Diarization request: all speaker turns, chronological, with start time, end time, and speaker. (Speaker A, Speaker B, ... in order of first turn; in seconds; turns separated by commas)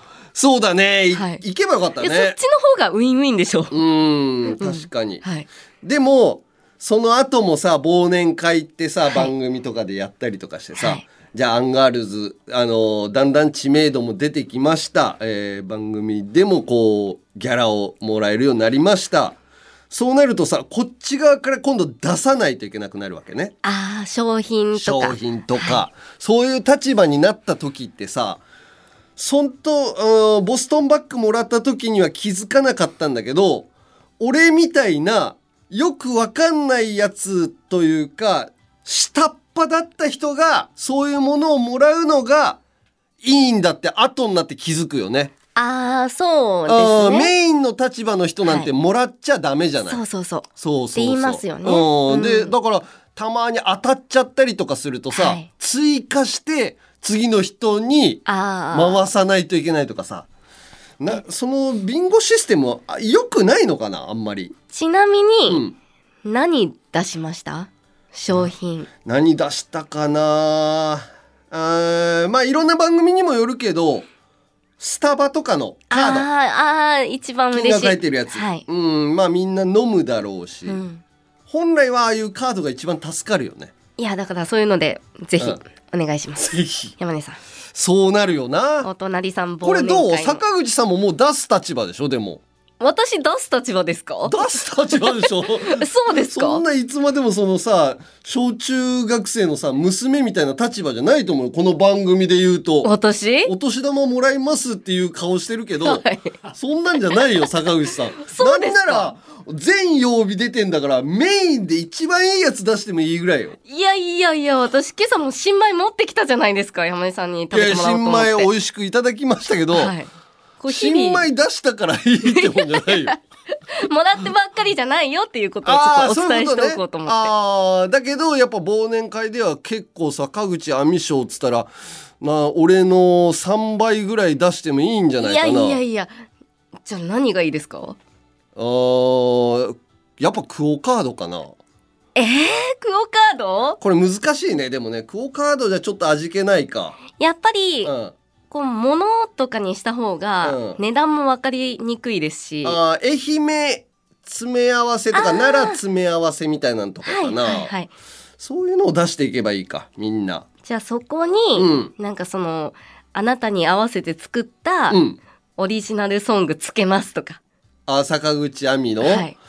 Speaker A: 0.3-2.4, Speaker B: 1.1-1.4, Speaker B: 2.0-3.7, Speaker A: 3.7-5.2, Speaker B: 4.5-5.5, Speaker A: 5.8-19.4, Speaker B: 10.8-11.0, Speaker A: 19.9-23.5, Speaker B: 23.6-25.8, Speaker A: 24.7-28.4, Speaker A: 29.1-33.7, Speaker A: 34.2-42.6, Speaker A: 43.2-45.3, Speaker B: 45.5-47.3, Speaker A: 46.6-50.0, Speaker B: 48.4-48.7, Speaker B: 49.9-52.5, Speaker A: 50.6-60.3, Speaker B: 55.1-55.5, Speaker B: 58.2-59.1, Speaker A: 61.0-64.5, Speaker B: 64.7-65.6, Speaker A: 65.5-65.7, Speaker B: 66.2-68.9, Speaker A: 69.0-74.1, Speaker A: 74.8-76.3, Speaker B: 75.9-78.6, Speaker A: 77.5-80.8, Speaker B: 80.7-81.0, Speaker A: 81.5-83.7, Speaker B: 84.0-87.4, Speaker A: 86.4-86.9, Speaker A: 87.7-88.9, Speaker B: 88.8-90.4, Speaker A: 89.6-92.4, Speaker B: 92.8-96.6, Speaker A: 94.2-102.9, Speaker B: 102.8-103.5, Speaker A: 103.4-113.6, Speaker B: 105.8-106.4, Speaker B: 107.1-107.4, Speaker B: 108.2-109.1, Speaker B: 113.7-118.5, Speaker A: 117.5-119.9, Speaker B: 119.7-121.2, Speaker A: 120.7-123.1, Speaker B: 122.2-123.2, Speaker B: 123.7-127.3, Speaker A: 125.6-131.7, Speaker A: 132.2-135.8, Speaker B: 135.2-136.1, Speaker B: 136.8-138.0, Speaker A: 138.6-141.6, Speaker B: 142.1-143.8, Speaker A: 143.8-147.0, Speaker B: 147.2-147.9, Speaker A: 147.8-148.1, Speaker B: 148.5-152.8, Speaker A: 150.4-150.8, Speaker A: 152.6-157.7, Speaker B: 155.1-155.8, Speaker B: 157.0-157.9, Speaker A: 158.4-160.4, Speaker B: 160.7-165.0, Speaker A: 161.5-161.9, Speaker A: 164.9-165.2, Speaker B: 165.6-167.4, Speaker A: 167.9-169.2, Speaker B: 169.0-169.3